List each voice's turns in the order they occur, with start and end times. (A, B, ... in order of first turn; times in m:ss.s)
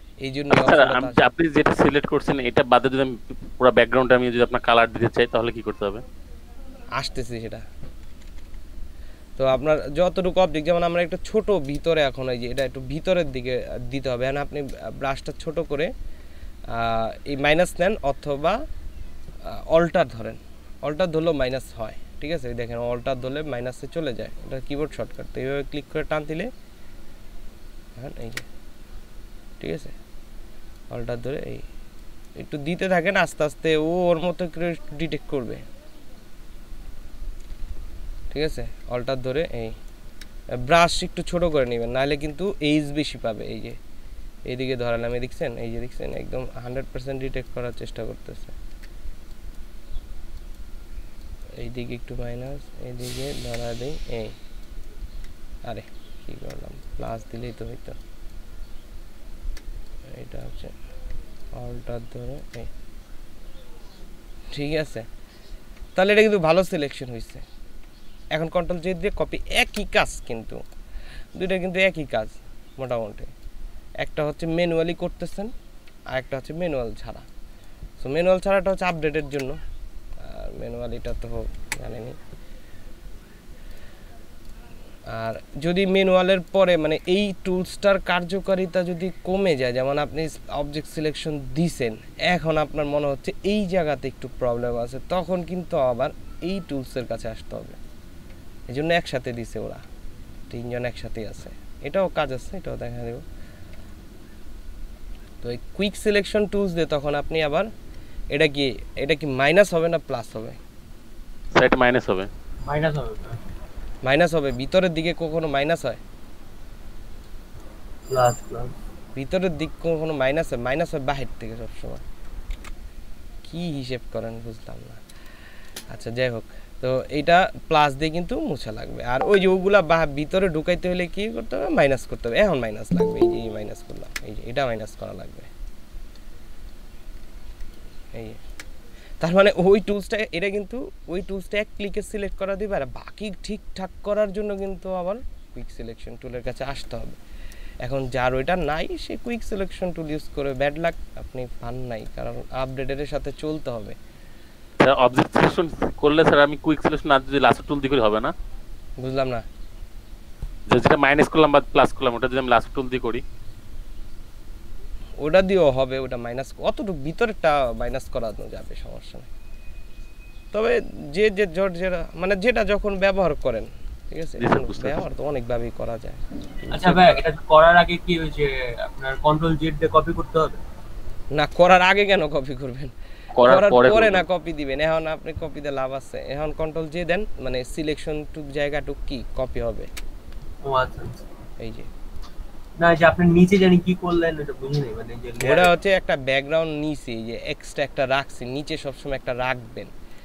0:00.2-0:01.2 A
0:00.5-0:06.0 B
0:07.0-0:07.7 A
0:09.4-0:15.9 A
0:16.7-0:18.6 A
0:19.4-0:26.5 A
0:28.0-0:28.5 A
0:29.6-0:30.0 A
0:30.9-0:31.6 A
0:32.4-0:35.6 A
0:38.3-0:39.8 A
0:40.6-0:43.8 A
0:44.5-0:48.6 A
0:51.6-0:54.4 A
0:55.6-0:58.0 A
1:00.1-1:00.7 A
1:01.6-1:02.7 A
1:04.5-1:05.1 A
1:06.0-1:07.4 A
1:08.3-1:10.6 A
1:11.4-1:13.3 A
1:14.0-1:15.5 A
1:16.1-1:17.3 A
1:18.0-1:19.6 A
1:20.2-1:22.2 A
1:25.1-1:37.8 A
1:38.7-1:39.8 A
1:40.5-1:43.2 A
1:45.4-1:47.7 A
1:48.3-1:50.6 A
1:51.6-1:52.3 B
1:52.6-1:53.4 C
1:54.0-1:56.0 A
1:58.1-1:58.7 C
1:59.2-2:02.0 A
2:03.5-2:05.0 A
2:05.9-2:15.5 A
2:18.2-2:18.4 A
2:19.2-2:27.2 A
2:27.8-2:34.0 A
2:34.8-2:38.3 B
2:39.0-2:39.4 A
2:40.7-2:43.2 B
2:45.2-2:49.3 A
2:50.5-2:57.1 A
2:54.4-2:55.0 B
2:56.7-3:00.6 C
3:01.3-3:09.9 A
3:03.4-3:04.2 B
3:10.6-3:11.2 C
3:11.6-3:11.9 A
3:12.8-3:15.7 C
3:15.4-3:19.9 A